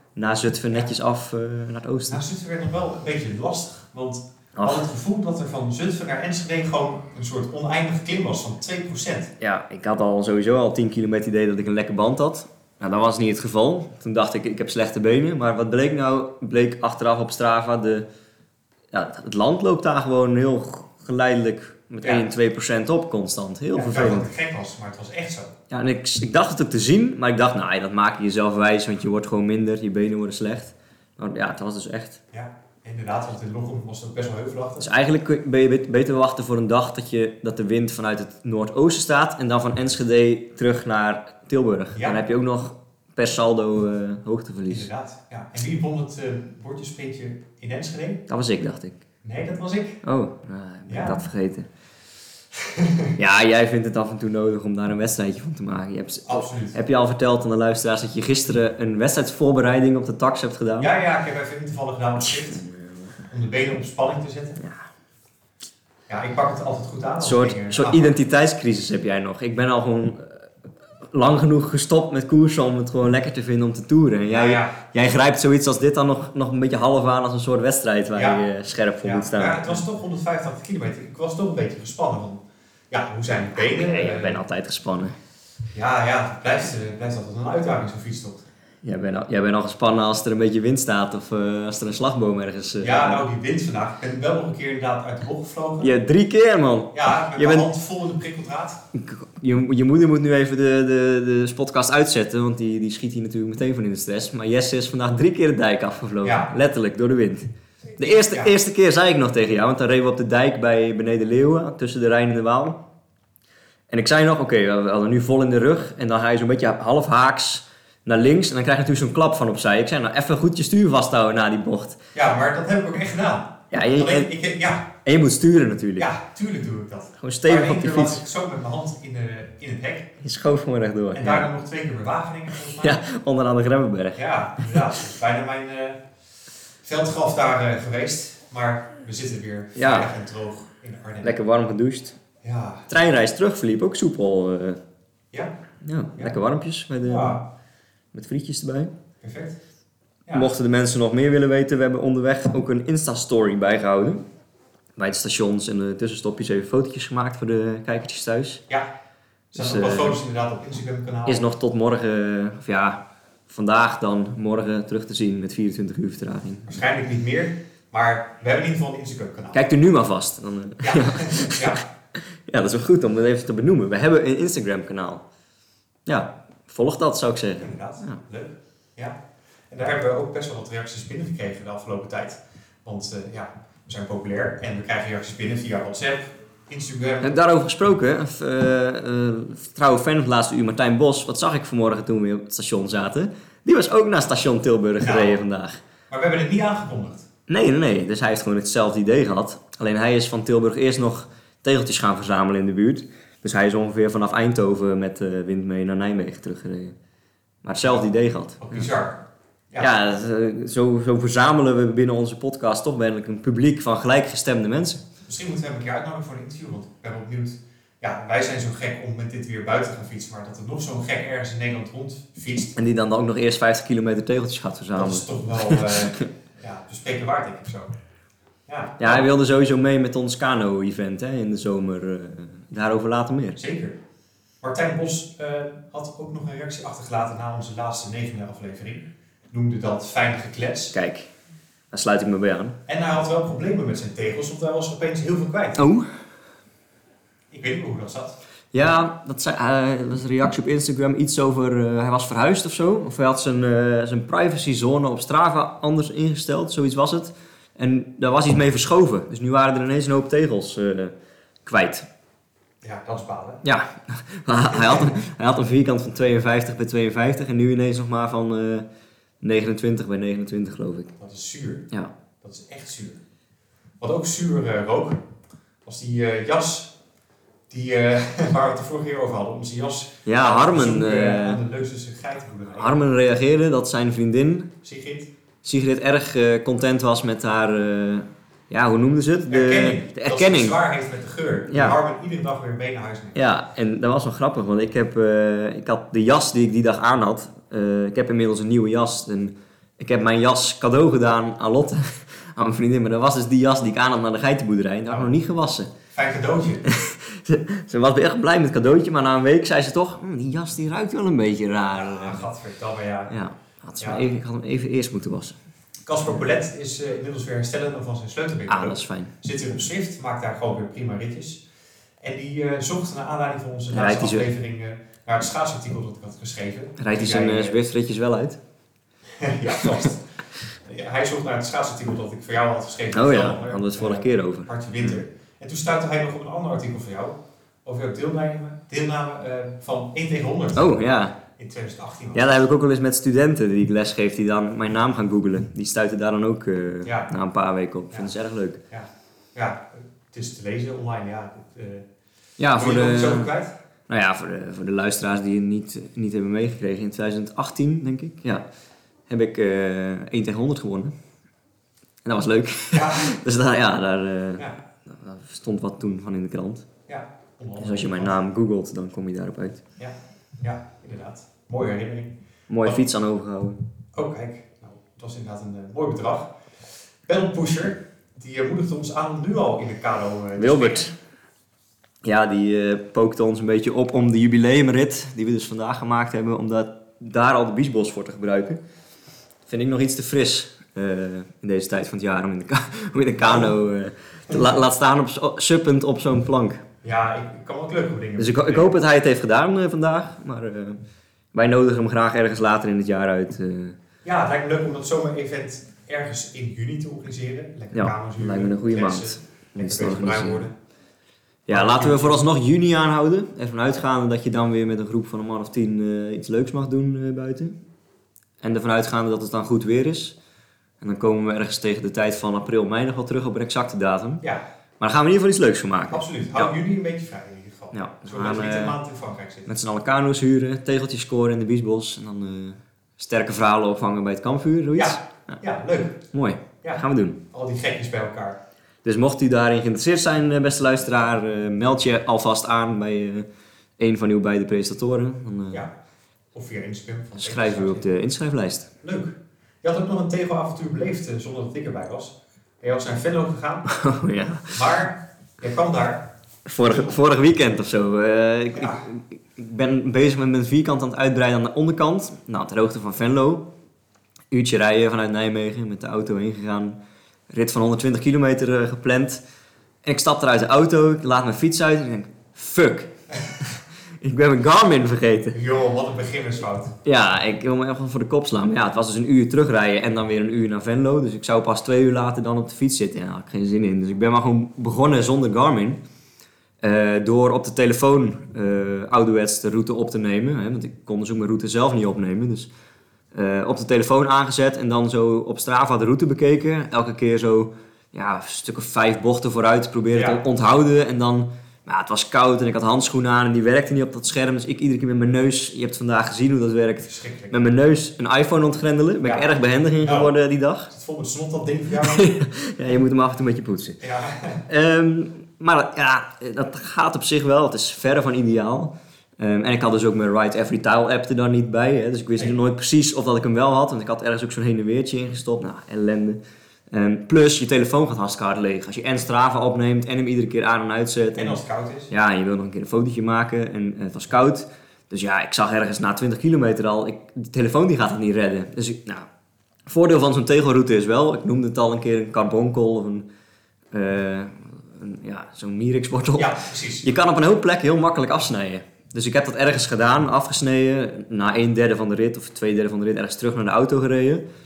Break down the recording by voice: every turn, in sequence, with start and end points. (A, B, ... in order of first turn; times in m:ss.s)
0:00.2-0:02.2 A
0:02.1-0:09.3 B
0:04.6-0:04.9 A
0:09.4-0:18.1 A
0:18.9-0:24.3 A
0:23.8-0:25.6 B
0:25.7-0:32.2 A
0:32.3-0:34.9 B
0:34.8-0:44.9 A
0:41.9-0:42.2 B
0:44.7-0:48.2 B
0:48.3-0:49.0 A
0:49.2-0:50.0 B
0:50.0-0:51.7 A
0:50.9-0:51.2 B
0:52.5-0:53.1 B
0:53.2-1:00.9 A
0:56.3-0:56.8 B
1:00.8-1:02.6 B
1:02.2-1:03.1 A
1:03.3-1:04.6 B
1:06.1-1:08.1 B
1:07.2-1:10.5 A
1:11.1-1:19.8 A
1:14.3-1:14.8 B
1:18.2-1:18.4 B
1:19.0-1:24.4 B
1:23.6-1:25.2 A
1:25.7-1:28.4 B
1:28.8-1:33.3 A
1:32.8-1:35.9 B
1:35.8-1:37.7 A
1:36.9-1:38.8 B
1:38.9-1:52.8 A
1:46.2-1:46.5 B
1:48.0-1:48.6 B
1:53.9-2:02.0 A
2:02.2-2:04.9 B
2:03.7-2:04.3 A
2:05.0-2:06.1 A
2:06.0-2:10.2 B
2:07.2-2:08.2 A
2:10.2-2:11.5 A
2:11.1-2:13.0 B
2:12.8-2:14.8 A
2:14.2-2:16.0 B
2:16.8-2:21.4 B
2:19.8-2:20.1 A
2:21.2-2:22.2 A
2:22.4-2:22.9 B
2:22.9-2:24.8 A
2:25.8-2:27.4 A
2:27.0-2:27.4 B
2:28.1-2:28.9 A
2:29.2-2:29.6 B
2:30.3-2:30.5 B
2:30.3-2:34.2 A
2:35.0-2:38.6 A
2:39.5-2:41.4 B
2:39.6-2:40.2 A
2:41.3-2:46.8 A
2:46.7-2:49.6 B
2:49.5-2:55.2 A
2:50.8-2:51.8 B
2:56.1-2:58.2 A
2:57.6-2:59.2 B
2:59.7-3:07.4 B
3:07.2-3:15.8 A
3:15.0-3:15.4 B
3:16.1-3:17.3 B
3:17.5-3:27.0 A
3:27.6-3:28.8 A
3:28.6-3:29.9 B
3:29.8-3:35.0 A
3:35.2-3:42.8 B
3:42.8-3:46.3 A
3:44.9-3:47.9 B
3:48.7-3:49.3 B
3:49.0-3:53.6 A
3:53.6-3:54.0 B
3:54.6-4:01.0 B
4:00.9-4:01.3 A
4:01.9-4:02.8 A
4:02.9-4:05.8 B
4:05.8-4:06.1 A
4:07.5-4:08.4 B
4:08.7-4:21.1 A
4:21.6-4:22.1 A
4:22.8-4:23.6 B
4:23.6-4:28.9 A
4:24.7-4:25.2 B
4:29.4-4:31.1 A
4:31.2-4:31.9 B
4:32.4-4:33.2 B
4:34.0-4:35.2 B
4:35.8-4:37.0 B
4:37.7-4:43.0 B
4:40.3-4:41.6 A
4:42.8-4:44.7 A
4:44.8-4:45.3 B
4:45.6-4:50.8 A
4:49.5-4:53.4 B
4:51.7-4:52.0 A
4:53.4-5:05.9 A
5:06.1-5:06.9 B
5:06.8-5:12.5 A
5:11.9-5:13.4 B
5:13.3-5:15.6 A
5:16.1-5:21.6 B
5:18.7-5:19.3 A
5:22.2-5:27.8 B
5:23.9-5:24.5 A
5:27.0-5:28.6 A
5:29.3-5:30.2 B
5:29.8-5:30.1 A
5:30.8-5:41.0 B
5:33.1-5:35.1 A
5:40.8-5:41.4 A
5:41.5-5:42.6 B
5:42.3-5:48.8 A
5:47.0-5:47.3 B
5:48.9-5:52.1 B
5:52.6-5:53.5 A
5:52.8-5:53.8 B
5:54.1-5:58.6 A
5:59.3-6:01.1 A
6:02.2-6:06.9 A
6:02.9-6:03.3 B
6:07.1-6:08.4 B
6:07.8-6:09.8 A
6:10.0-6:13.0 B
6:12.7-6:13.8 A
6:14.1-6:16.5 B
6:17.3-6:21.1 B
6:20.6-6:21.1 A
6:22.2-6:28.8 A
6:29.7-6:36.8 A
6:33.4-6:33.8 B
6:34.5-6:34.8 B
6:37.0-6:38.9 B
6:38.4-6:41.0 A
6:41.5-6:44.0 A
6:44.2-6:50.7 B
6:47.9-6:50.6 A
6:51.7-6:57.8 A
6:51.7-6:52.5 B
6:58.6-7:00.4 A
7:01.0-7:04.4 A
7:05.0-7:06.7 A
7:06.1-7:09.7 B
7:07.9-7:09.0 A
7:09.7-7:15.6 A
7:15.0-7:16.2 B
7:16.3-7:17.4 A
7:16.8-7:18.6 B
7:19.0-7:23.5 A
7:24.0-7:25.8 A
7:26.5-7:28.1 B
7:27.4-7:28.9 A
7:29.0-7:33.9 B
7:33.9-7:34.8 A
7:34.7-7:36.3 B
7:36.7-7:43.7 A
7:36.8-7:37.2 B
7:38.8-7:39.0 B
7:44.5-7:47.0 A
7:47.5-7:49.4 A
7:50.0-7:55.6 A
7:55.5-7:57.0 B
7:57.0-8:06.0 A
8:06.8-8:12.7 A
8:13.3-8:30.9 A
8:20.1-8:20.4 B
8:27.0-8:27.5 B
8:29.2-8:30.3 B
8:30.9-8:32.3 B
8:32.0-8:34.0 A
8:34.0-8:34.6 B
8:34.7-8:46.4 A
8:46.9-8:51.6 A
8:51.4-8:52.1 B
8:52.1-8:59.3 A
8:59.9-9:03.3 A
9:03.9-9:14.4 A
9:06.4-9:07.1 B